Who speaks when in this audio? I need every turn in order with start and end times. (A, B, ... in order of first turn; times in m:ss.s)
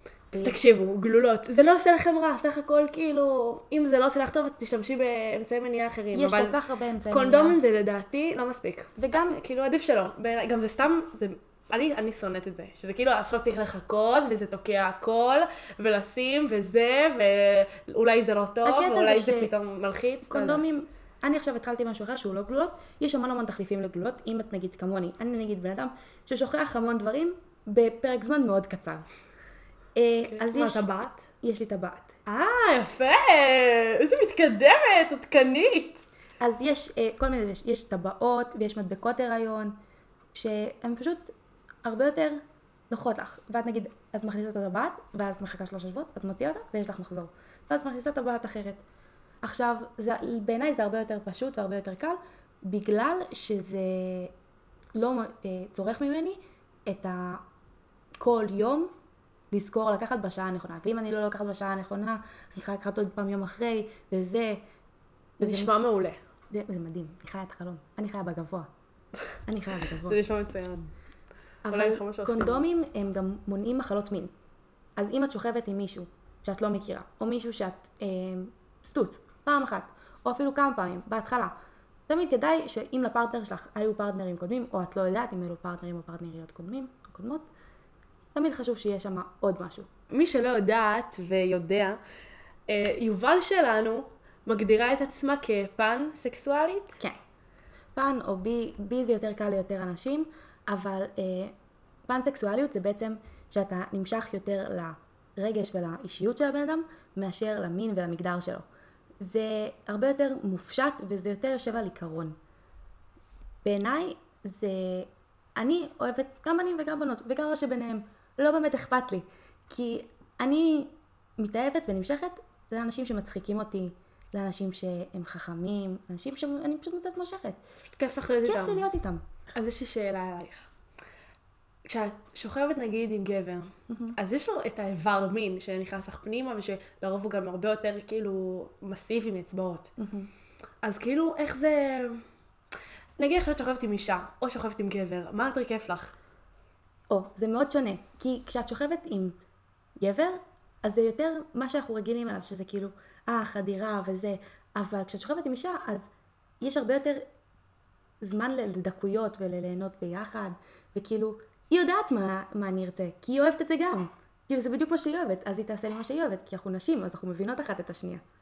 0:00.3-0:00.6 A
0:00.4-0:06.6 B
0:06.1-0:07.6 A
0:07.1-0:20.7 B
0:09.0-0:09.4 A
0:18.6-0:19.5 A
0:20.3-0:29.0 A
0:29.9-0:30.9 A
0:30.2-0:31.3 B
0:31.4-0:32.1 A
0:32.2-0:36.0 B
0:36.4-0:39.7 A
0:40.3-0:41.3 A
0:41.8-0:42.4 A
0:42.9-0:48.8 A
0:49.4-0:54.3 A
0:55.0-0:57.4 A
0:58.2-0:58.9 A
0:59.5-1:04.6 A
1:05.4-1:05.8 A
1:05.4-1:06.2 B
1:06.5-1:08.7 A
1:09.5-1:10.2 A
1:10.0-1:10.9 B
1:11.6-1:14.3 A
1:11.7-1:12.6 B
1:15.0-1:21.5 A
1:22.1-1:27.5 A
1:28.3-1:29.9 A
1:30.1-1:32.0 B
1:32.7-1:37.0 B
1:37.9-1:41.5 A
1:42.1-1:48.6 A
1:49.2-1:52.4 A
1:53.6-2:07.6 A
2:08.0-2:08.8 B
2:08.4-2:09.2 A
2:09.5-2:10.7 B
2:11.8-2:19.9 B
2:13.9-2:14.2 A
2:20.0-2:20.3 A
2:20.8-2:22.2 B
2:23.2-2:26.1 B
2:27.1-2:29.3 A
2:30.0-2:36.1 A
2:36.6-2:37.2 A
2:38.2-2:48.2 A